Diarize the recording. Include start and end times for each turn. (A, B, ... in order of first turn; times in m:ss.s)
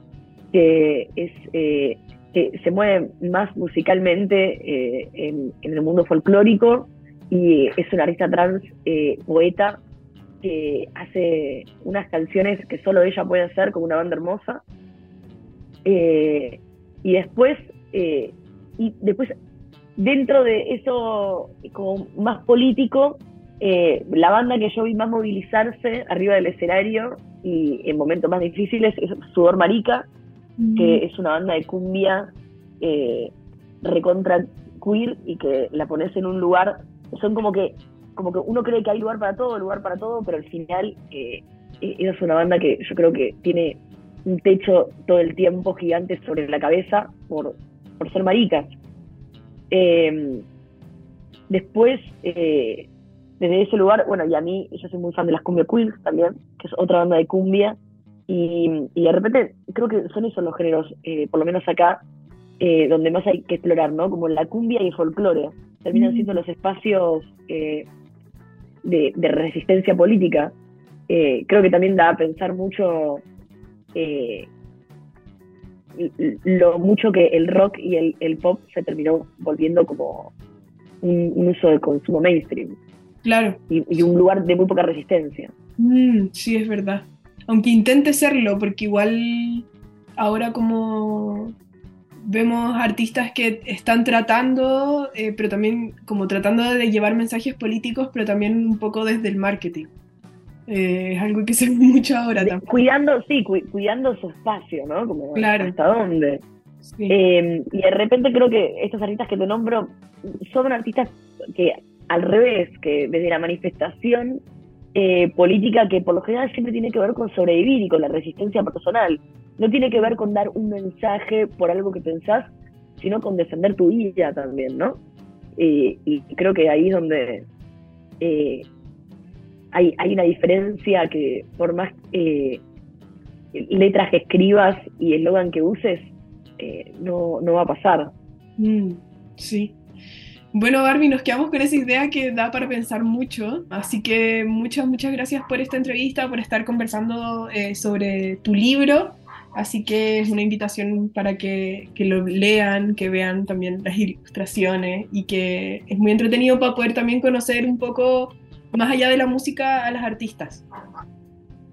0:00.5-0:09.8 A
0:10.4-0:14.6 A
0:15.8-0:19.3 A
0:20.0-0:30.1 A
0:30.6-0:31.0 B
0:30.8-0:48.7 A
0:49.7-0:50.4 A
0:51.5-0:57.8 A
0:58.3-1:02.0 A
1:02.6-1:07.9 A
1:05.9-1:06.4 B
1:08.8-1:10.5 A
1:11.1-1:13.2 A
1:13.9-1:14.5 A
1:16.0-1:20.3 A
1:21.0-1:22.8 A
1:23.2-1:23.6 B
1:23.7-1:25.5 A
1:25.8-1:31.5 B
1:32.2-1:39.9 B
1:40.7-1:42.6 B
1:42.4-1:46.4 A
1:45.3-1:45.8 B
1:46.8-1:47.1 B
1:47.1-1:54.4 A
1:54.9-2:05.0 A
2:05.6-2:07.4 A
2:08.2-2:08.7 A
2:09.7-2:12.6 A
2:13.5-2:18.1 A
2:18.6-2:19.8 B
2:20.5-2:40.6 B